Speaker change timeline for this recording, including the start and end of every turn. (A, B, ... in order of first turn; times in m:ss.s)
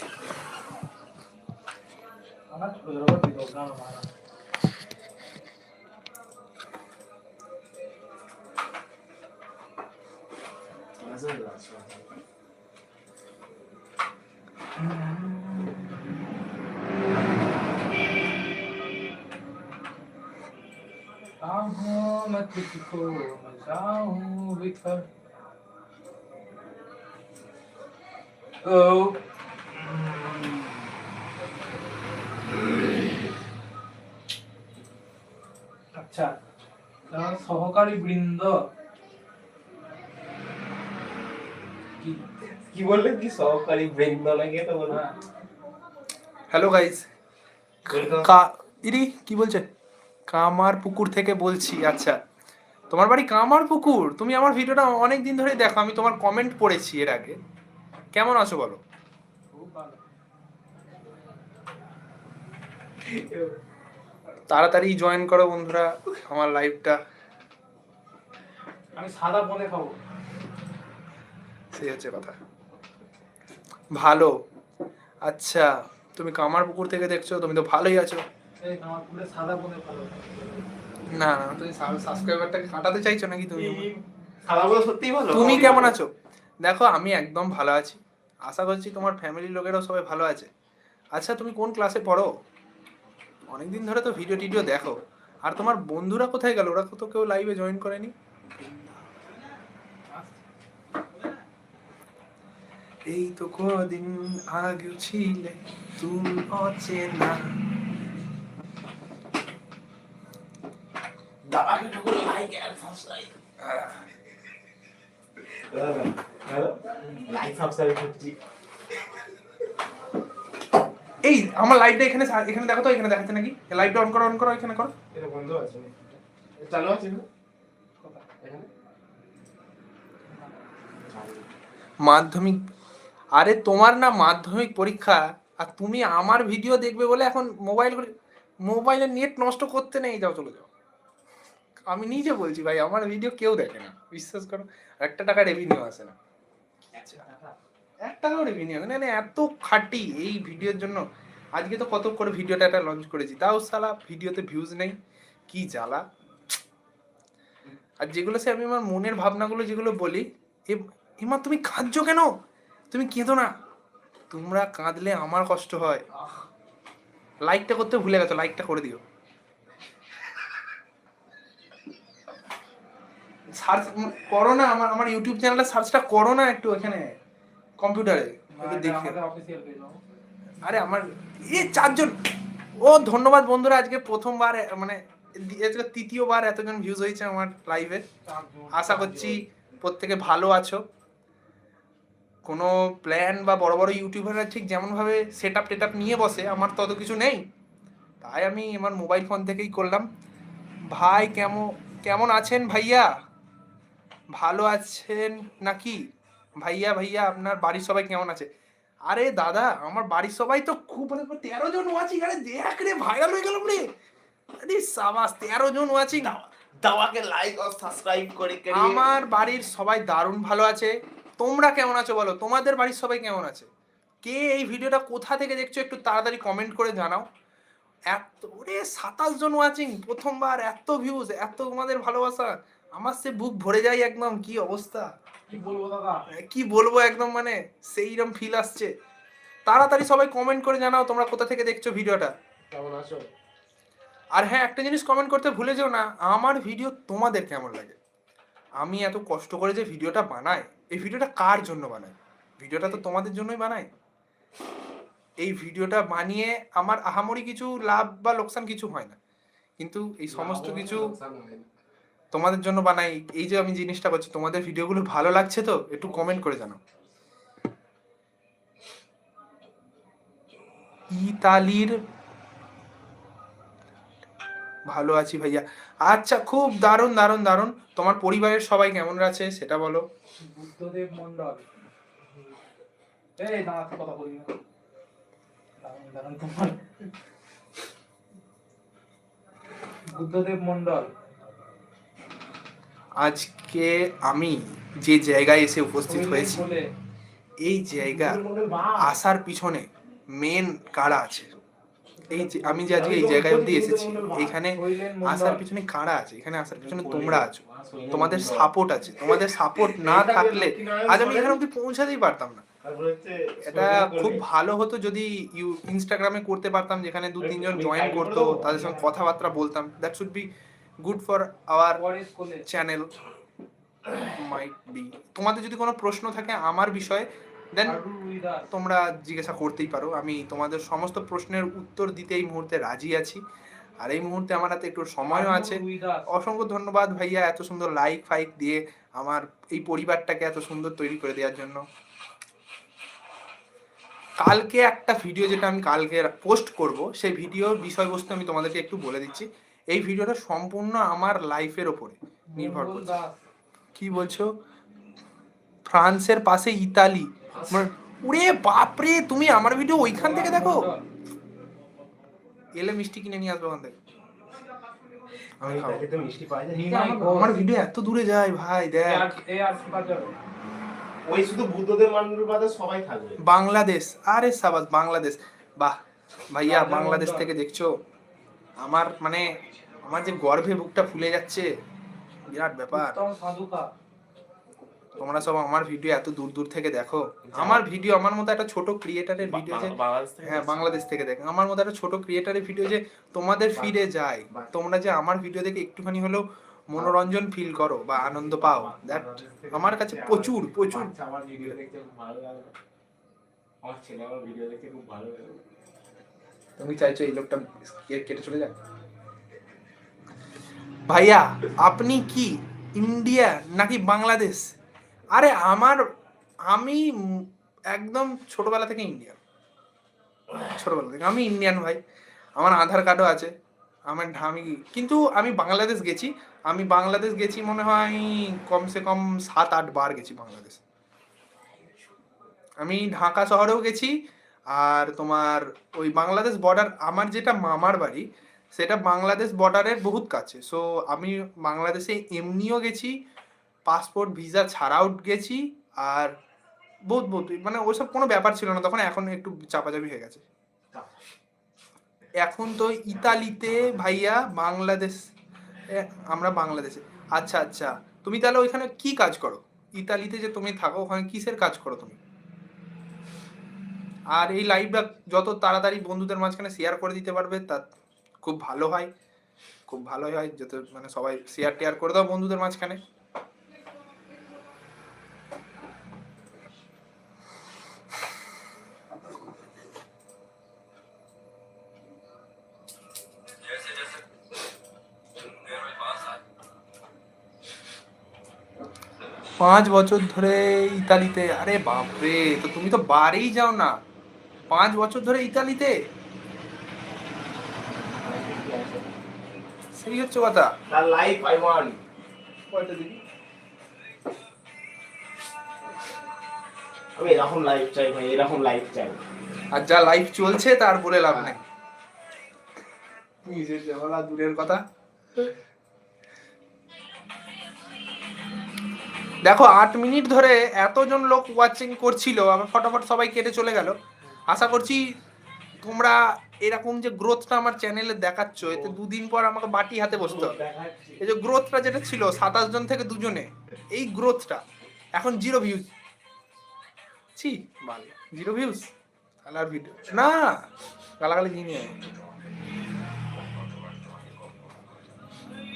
0:02.5-0:04.1 A
0:11.0-0:12.0 B
0:14.8-0:15.9 A
0:21.4-0:25.1 A
0:28.6-0:29.2 A
0:29.8-0:30.6 A
0:35.9-0:36.3 A
0:37.1-0:38.6 A
0:42.6-0:45.1 B
0:46.5-0:47.0 C
0:47.9-0:48.3 B
0:48.0-0:49.6 C
0:50.3-0:52.2 C
0:52.9-0:57.4 C
0:58.1-0:58.8 C
0:59.5-1:00.0 A
1:03.1-1:03.6 B
1:04.5-1:07.0 C
1:09.0-1:10.0 A
1:11.7-1:12.4 C
1:14.0-1:14.3 C
1:15.3-1:18.2 C
1:18.6-1:20.6 A
1:21.1-1:23.9 C
1:23.6-1:25.9 B
1:25.3-1:26.1 C
1:26.6-1:30.5 C
1:31.2-1:32.3 C
1:33.5-1:38.1 C
1:40.1-1:40.4 A
1:43.1-1:47.4 C
1:51.4-1:53.3 B
1:53.6-1:54.0 C
1:55.5-1:58.4 B
2:01.2-2:04.9 C
2:05.1-2:07.3 B
2:08.0-2:08.3 A
2:08.4-2:08.7 B
2:10.3-2:10.7 A
2:11.1-2:11.5 B
2:12.0-2:12.6 C
2:13.4-2:18.1 C
2:18.6-2:20.7 C
2:21.9-2:26.2 C
2:27.0-2:27.6 B
2:28.0-2:31.0 C
2:31.6-2:35.0 C
2:35.5-2:36.0 C
2:38.0-2:42.3 C
2:42.9-2:43.5 C
2:44.3-2:46.0 C
2:47.5-2:49.0 C
2:53.6-2:57.1 C
2:57.8-2:59.2 C
2:58.6-3:00.0 A
3:00.6-3:02.2 C
3:02.8-3:08.0 C
3:08.3-3:09.3 A
3:08.7-3:10.8 C
3:09.0-3:09.4 B
3:12.5-3:17.4 C
3:18.2-3:20.1 C
3:20.9-3:23.1 C
3:24.4-3:26.0 C
3:26.6-3:28.5 C
3:29.1-3:33.8 C
3:34.6-3:36.4 C
3:36.1-3:39.1 B
3:38.7-3:43.7 C
3:44.2-3:47.3 C
3:48.1-3:55.1 C
3:55.5-3:56.2 A
3:56.4-3:58.9 C
3:59.7-4:02.3 C
4:02.7-4:03.3 B
4:04.4-4:08.0 C
4:08.8-4:13.9 C
4:15.4-4:19.2 C
4:19.8-4:21.1 C
4:20.3-4:21.7 B
4:22.3-4:26.8 C
4:26.0-4:26.5 B
4:31.2-4:32.0 C
4:34.9-4:40.0 C
4:40.4-4:41.6 A
4:43.4-4:44.6 A
4:45.8-4:46.8 A
4:50.1-4:51.1 A
4:53.2-4:56.6 C
4:56.1-4:56.8 A
4:57.6-4:58.4 C
4:58.0-4:59.2 B
4:59.0-4:59.9 C
5:00.4-5:01.6 C
5:02.3-5:12.6 C
5:02.4-5:02.8 A
5:02.9-5:04.6 B
5:04.7-5:05.6 A
5:06.8-5:08.7 B
5:09.2-5:11.6 B
5:12.8-5:14.4 B
5:13.7-5:20.5 C
5:17.4-5:19.1 B
5:21.0-5:22.0 C
5:22.0-5:22.7 A
5:22.7-5:23.1 C
5:24.3-5:28.0 C
5:27.8-5:28.7 A
5:28.7-5:33.4 C
5:34.0-5:41.8 C
5:35.3-5:36.3 A
5:44.4-5:53.2 C
5:52.5-5:53.4 A
5:54.0-5:54.5 C
5:55.9-6:00.9 C
5:57.5-5:57.9 B
6:00.0-6:01.0 A
6:02.8-6:04.0 C
6:05.6-6:06.1 C
6:05.6-6:07.0 B
6:06.7-6:07.6 A
6:06.9-6:09.3 C
6:09.0-6:10.3 A
6:11.3-6:13.4 B
6:13.4-6:16.0 C
6:16.5-6:17.9 C
6:16.6-6:17.5 A
6:18.8-6:19.5 C
6:20.1-6:21.7 C
6:22.5-6:23.2 C
6:22.9-6:23.9 A
6:25.2-6:41.8 C
6:27.5-6:27.9 B
6:29.4-6:31.0 B
6:38.2-6:42.8 B
6:43.8-6:45.6 B
6:46.8-6:48.8 C
6:51.1-6:54.6 C
6:55.3-6:56.0 C
6:56.7-6:59.4 C
7:00.6-7:02.0 C
7:02.6-7:03.5 C
7:04.1-7:10.8 C
7:12.8-7:14.1 C
7:14.7-7:18.2 C
7:18.8-7:23.1 C
7:23.9-7:26.3 C
7:27.1-7:30.4 C
7:30.9-7:31.3 B
7:32.4-7:35.2 C
7:33.1-7:34.5 B
7:36.0-7:42.2 C
7:44.3-7:47.8 C
7:48.4-7:49.1 C
7:49.9-7:53.0 C
8:09.6-8:13.9 C
8:14.7-8:15.9 C
8:18.1-8:19.2 B
8:20.0-8:20.7 C
8:20.9-8:22.0 B
8:22.7-8:23.2 C
8:27.2-8:29.2 B
8:29.7-8:31.6 C
8:31.3-8:31.6 B
8:33.4-8:34.8 C
8:39.4-8:44.0 C
8:44.5-8:45.0 C
8:45.8-8:50.6 C
8:48.6-8:49.0 B
8:50.1-8:51.2 B
8:51.2-8:54.6 C
8:55.2-8:55.9 C
8:57.4-8:58.9 C
8:59.4-9:00.6 C
9:01.2-9:02.0 C